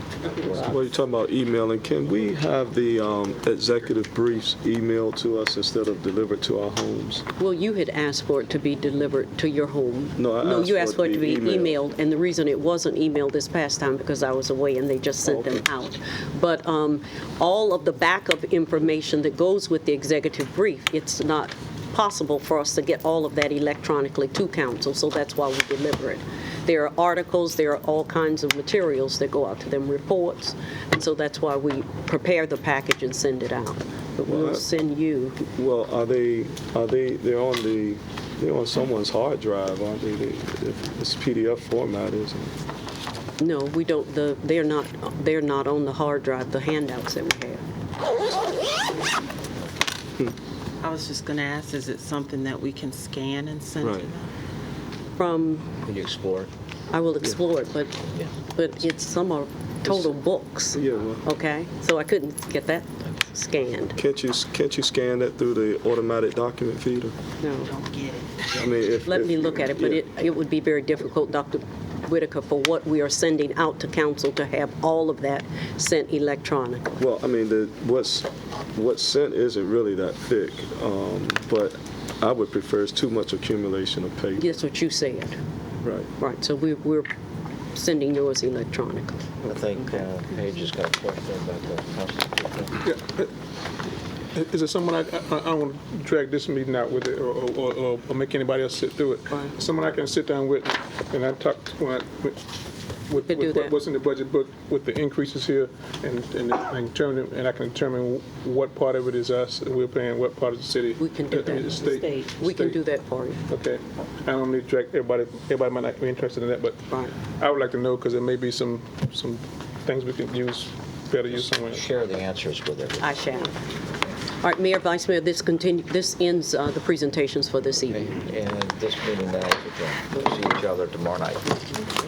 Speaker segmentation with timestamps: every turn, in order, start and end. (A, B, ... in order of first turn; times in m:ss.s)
0:00.5-0:07.2 A
0:07.4-0:35.5 B
0:10.2-0:11.8 A
0:15.2-0:15.6 A
0:34.2-0:34.7 A
0:35.5-0:42.6 A
0:43.4-0:47.6 B
0:50.8-0:54.3 C
0:53.8-0:54.1 A
0:55.2-0:55.7 B
0:55.8-0:56.5 D
0:56.9-1:04.0 B
0:59.8-1:00.2 A
1:00.7-1:01.2 A
1:04.0-1:07.1 A
1:07.4-1:07.7 B
1:07.6-1:08.5 C
1:08.5-1:10.0 A
1:09.0-1:17.0 B
1:17.0-1:24.6 A
1:24.4-1:25.4 B
1:25.8-1:26.1 A
1:26.2-1:27.1 B
1:27.7-1:29.3 B
1:29.4-1:32.8 D
1:32.8-1:33.3 E
1:34.4-1:42.4 E
1:43.1-1:52.8 E
1:43.2-1:43.7 B
1:51.0-1:53.4 B
1:53.5-1:56.8 E
1:56.9-1:57.1 B
1:57.4-2:01.8 E
2:01.3-2:03.1 D
2:03.0-2:03.5 B
2:04.4-2:08.1 B
2:07.9-2:11.4 D